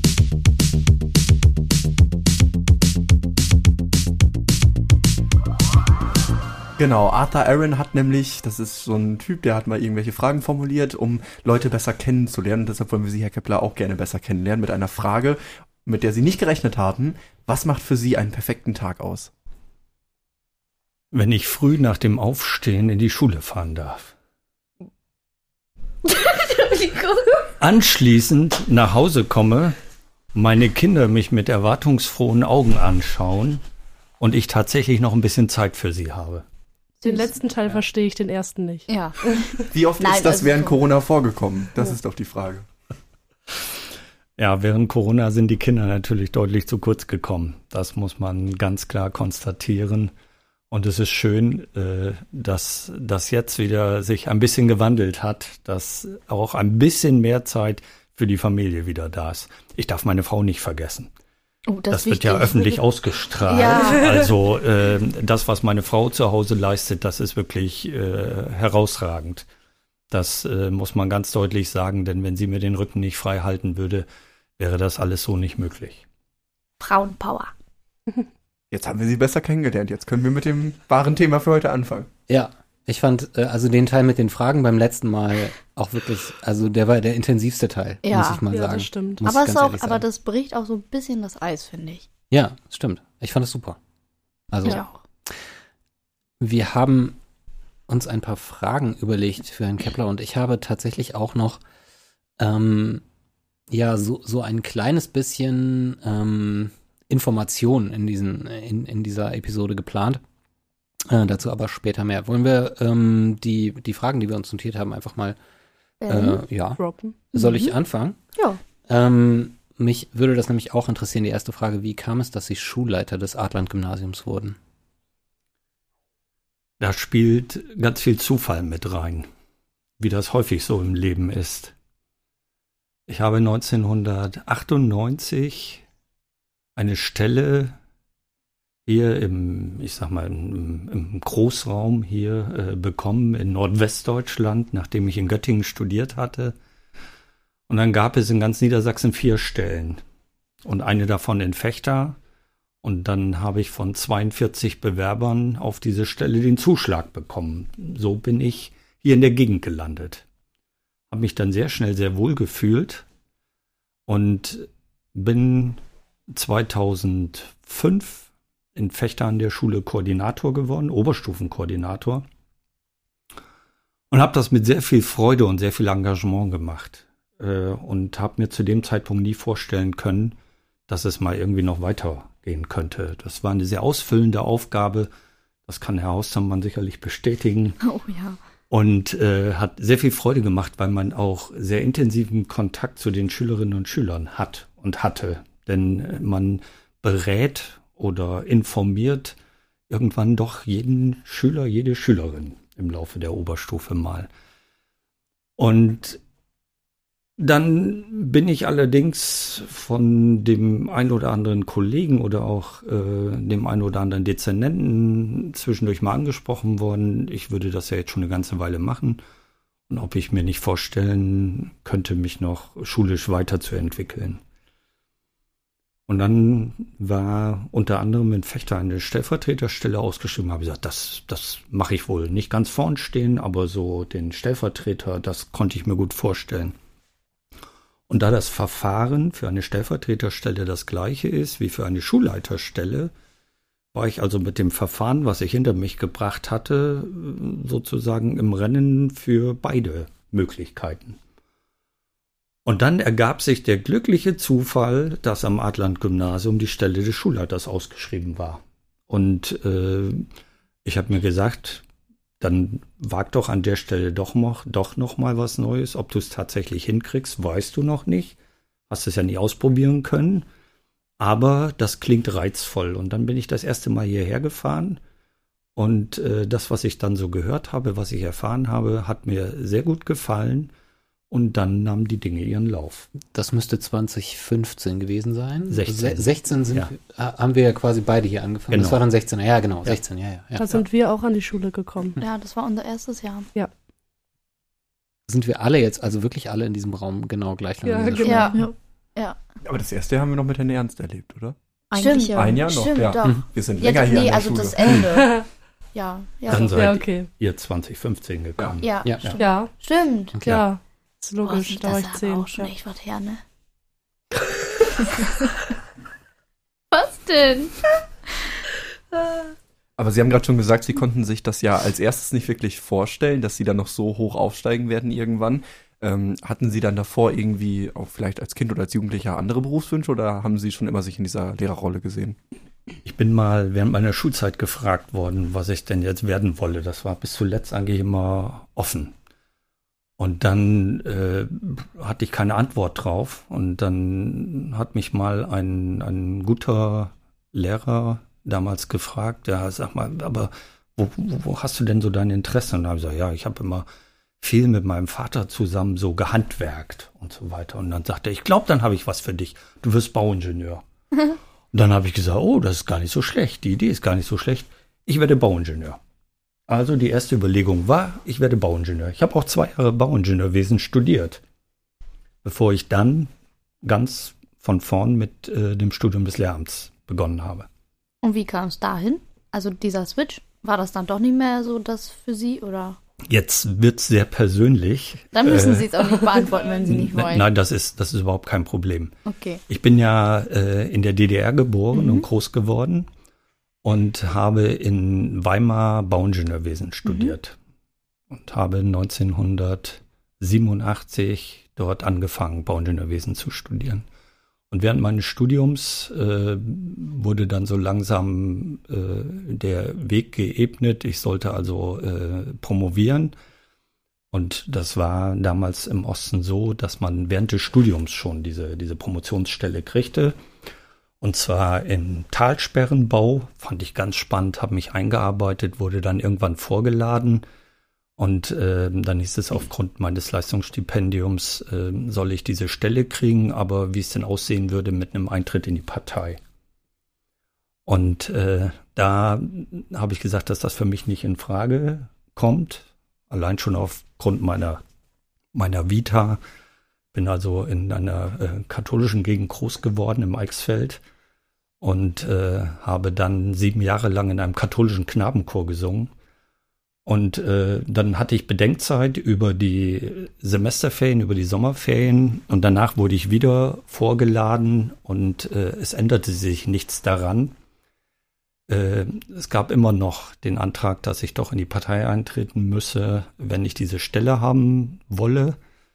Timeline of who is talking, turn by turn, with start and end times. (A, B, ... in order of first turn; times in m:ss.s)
0:06.8-0:19.3 A
0:21.1-0:24.1 B
0:26.0-0:27.5 C
0:27.6-0:29.8 B
0:30.3-0:33.6 B
0:34.2-0:36.4 B
0:37.0-0:37.3 C
0:37.0-0:38.9 D
0:38.9-0:40.8 C
0:39.7-0:42.7 A
0:44.4-0:50.1 B
0:50.7-1:01.1 B
1:01.7-1:02.8 C
1:01.9-1:09.5 B
1:03.4-1:04.2 C
1:10.1-1:14.1 B
1:14.6-1:16.0 B
1:16.8-1:17.5 C
1:18.7-1:22.1 A
1:22.3-1:30.0 E
1:28.0-1:28.4 C
1:28.5-1:29.2 D
1:29.2-1:32.1 C
1:32.3-1:33.8 E
1:34.5-1:35.4 E
1:36.4-1:37.2 E
1:37.9-1:41.6 E
1:42.4-1:43.0 E
1:43.7-1:50.2 E
1:51.1-1:55.4 E
1:56.0-1:56.4 C
1:56.1-1:58.2 E
1:56.8-1:57.7 D
1:58.9-2:04.6 E
2:06.8-2:09.3 B
2:10.0-2:11.7 B
2:13.1-2:15.8 B
2:16.8-2:17.8 B
2:18.9-2:26.6 B
2:27.7-2:30.0 B
2:30.6-2:32.2 B
2:32.8-2:40.2 B
2:41.1-2:43.0 B
2:44.1-2:52.2 B
2:54.1-3:00.4 B
3:00.9-3:05.1 B
3:05.7-3:07.8 B
3:07.8-3:08.4 C
3:08.7-3:19.4 B
3:19.9-3:24.3 B
3:25.6-3:26.2 B
3:27.4-3:39.2 B
3:39.9-3:44.4 B
3:46.1-3:56.8 B
3:58.1-4:03.1 B
4:03.9-4:11.2 B
4:12.6-4:20.3 B
4:20.8-4:21.8 B
4:22.4-4:28.4 B
4:28.9-4:30.5 B
4:31.2-4:35.0 B
4:35.8-4:40.7 B
4:41.3-4:43.1 B
4:43.3-4:50.6 E
4:45.7-4:46.9 B
4:48.7-4:49.0 B
4:50.6-4:52.2 D
4:52.2-4:53.5 C
4:55.3-4:58.6 E
4:57.8-4:58.7 D
4:58.2-4:59.4 C
4:59.6-5:05.0 A
5:01.9-5:06.8 C
5:02.0-5:02.3 D
5:06.5-5:09.4 B
5:06.7-5:07.3 D
5:08.8-5:10.4 C
5:09.4-5:09.7 D
5:10.3-5:10.6 E
5:10.4-5:12.7 D
5:11.4-5:13.4 C
5:15.0-5:15.4 C
5:16.9-5:17.8 C
5:20.0-5:32.4 A
5:33.0-5:39.1 B
5:40.2-5:53.9 B
5:54.4-6:00.8 B
6:01.7-6:06.0 B
6:06.7-6:11.4 B
6:12.4-6:13.3 B
6:13.8-6:17.7 B
6:18.2-6:23.0 C
6:23.2-6:25.9 B
6:25.3-6:27.5 C
6:26.9-6:29.2 B
6:29.3-6:29.6 C
6:29.7-6:33.1 B
6:31.9-6:32.3 C
6:33.8-6:37.6 B
6:37.1-6:37.3 C
6:38.3-6:44.0 B
6:44.7-6:53.4 B
6:54.3-7:00.4 B
7:01.2-7:07.5 B
7:08.2-7:16.4 B
7:17.9-7:24.8 B
7:25.5-7:26.4 B
7:27.1-7:31.0 B
7:31.8-7:36.1 B
7:37.0-7:47.6 B
7:48.7-7:55.6 B